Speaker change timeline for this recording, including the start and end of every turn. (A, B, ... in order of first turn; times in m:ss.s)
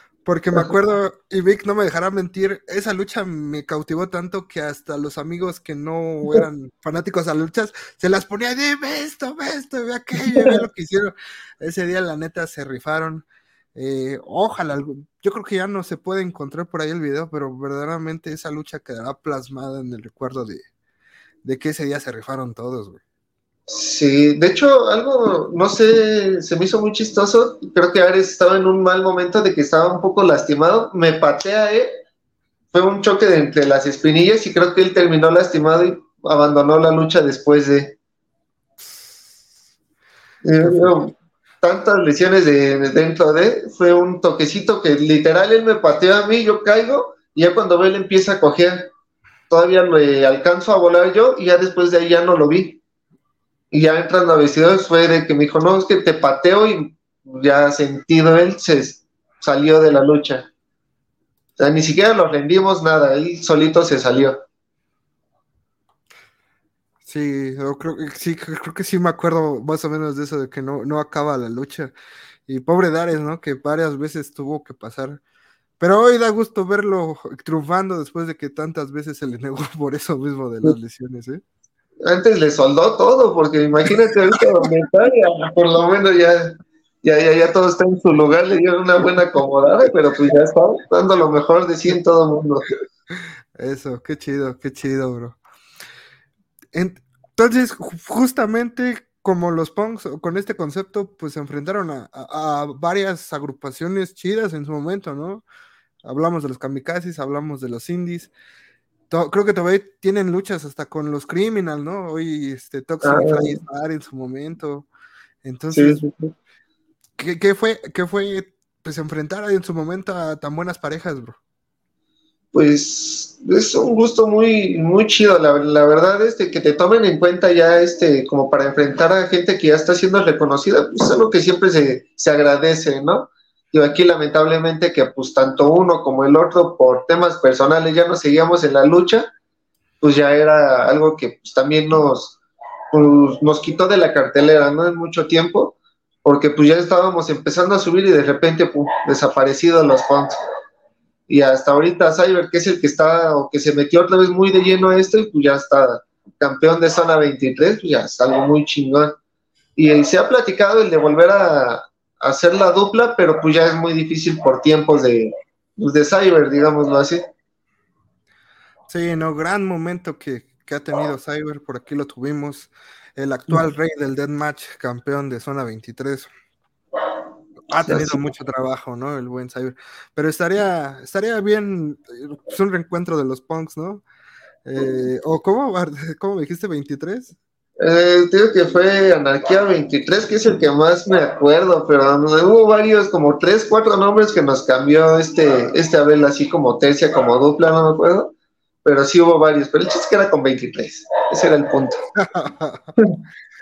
0:00.2-0:20.6 A
0:10.3-0:10.6 B
0:21.4-0:23.0 A
0:23.7-0:31.9 B
0:32.7-0:38.0 B
0:38.8-0:39.4 A
0:40.4-0:48.9 B
0:40.6-0:41.0 A
0:49.5-0:52.8 B
0:53.7-1:00.5 B
1:01.6-1:04.4 B
1:07.0-1:11.9 A
1:12.5-1:15.2 A
1:15.8-1:21.4 A
1:22.0-1:32.7 B
1:33.1-1:35.4 A
1:36.7-1:45.4 A
1:46.0-1:48.3 A
1:49.1-1:54.9 A
1:53.0-1:53.6 B
1:55.4-1:56.0 A
1:55.7-1:56.3 B
1:57.2-2:01.4 A
2:02.5-2:19.3 B
2:20.0-2:22.4 B
2:22.9-2:30.3 B
2:31.3-2:39.1 B
2:39.8-2:47.2 B
2:48.9-2:56.3 A
2:57.7-3:04.0 A
2:57.8-2:58.2 B
3:04.6-3:07.3 A
3:07.8-3:18.3 B
3:18.8-3:22.0 B
3:22.1-3:22.9 A